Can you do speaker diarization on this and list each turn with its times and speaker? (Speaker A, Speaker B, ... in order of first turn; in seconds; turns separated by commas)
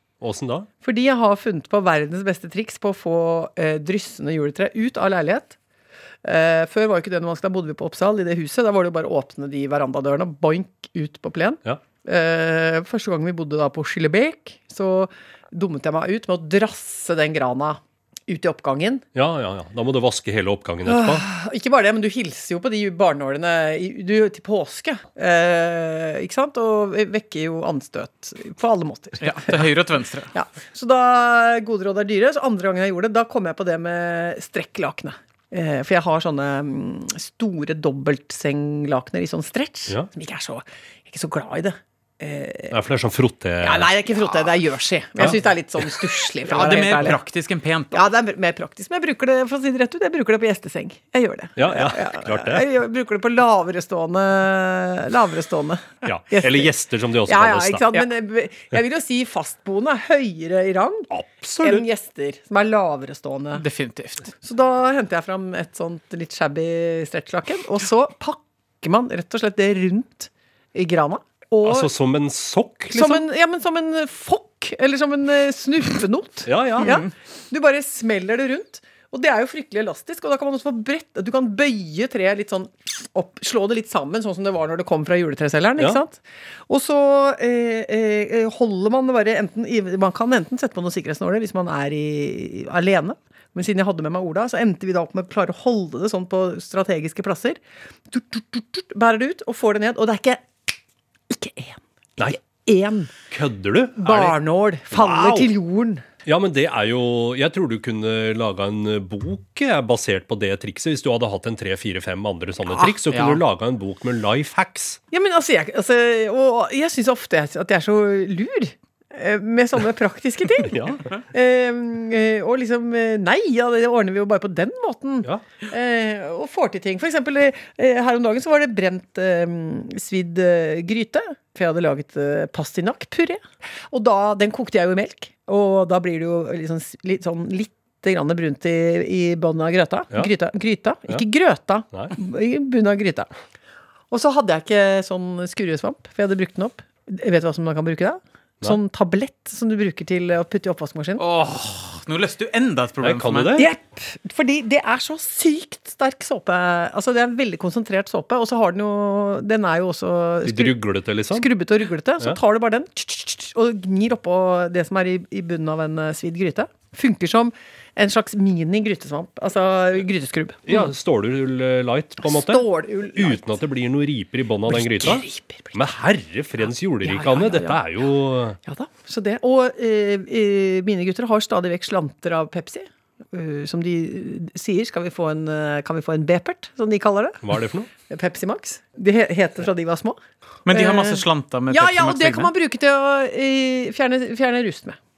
Speaker A: 0.2-0.7, Speaker B: 0.8-5.6, Speaker B: 6.2-19.0, Speaker A: 19.1-21.2, Speaker B: 20.9-29.7, Speaker C: 29.2-30.3, Speaker B: 30.3-42.8, Speaker A: 42.7-43.9, Speaker B: 43.6-47.2, Speaker C: 46.5-48.0, Speaker B: 47.9-56.7, Speaker A: 51.6-52.6, Speaker A: 56.0-57.9, Speaker B: 57.2-61.1, Speaker A: 61.1-61.9, Speaker B: 61.6-63.6, Speaker C: 63.5-64.3, Speaker B: 64.4-71.9, Speaker A: 71.6-73.2, Speaker B: 72.9-97.6, Speaker A: 76.5-76.9, Speaker B: 98.1-100.5, Speaker B: 101.3-103.1, Speaker A: 103.3-104.4, Speaker B: 104.0-106.0, Speaker A: 104.9-105.5, Speaker A: 106.2-115.0, Speaker C: 113.0-113.4, Speaker B: 115.1-143.3, Speaker A: 120.6-121.1, Speaker B: 144.1-151.2, Speaker C: 151.2-153.6, Speaker A: 153.0-153.7, Speaker B: 153.6-160.8, Speaker A: 160.4-161.5, Speaker B: 161.3-170.9, Speaker A: 170.7-178.6, Speaker B: 172.2-173.5, Speaker B: 174.7-175.8, Speaker B: 177.0-177.8, Speaker B: 178.6-187.4, Speaker A: 187.4-187.9, Speaker B: 188.1-190.2, Speaker C: 190.7-192.5, Speaker B: 190.7-195.0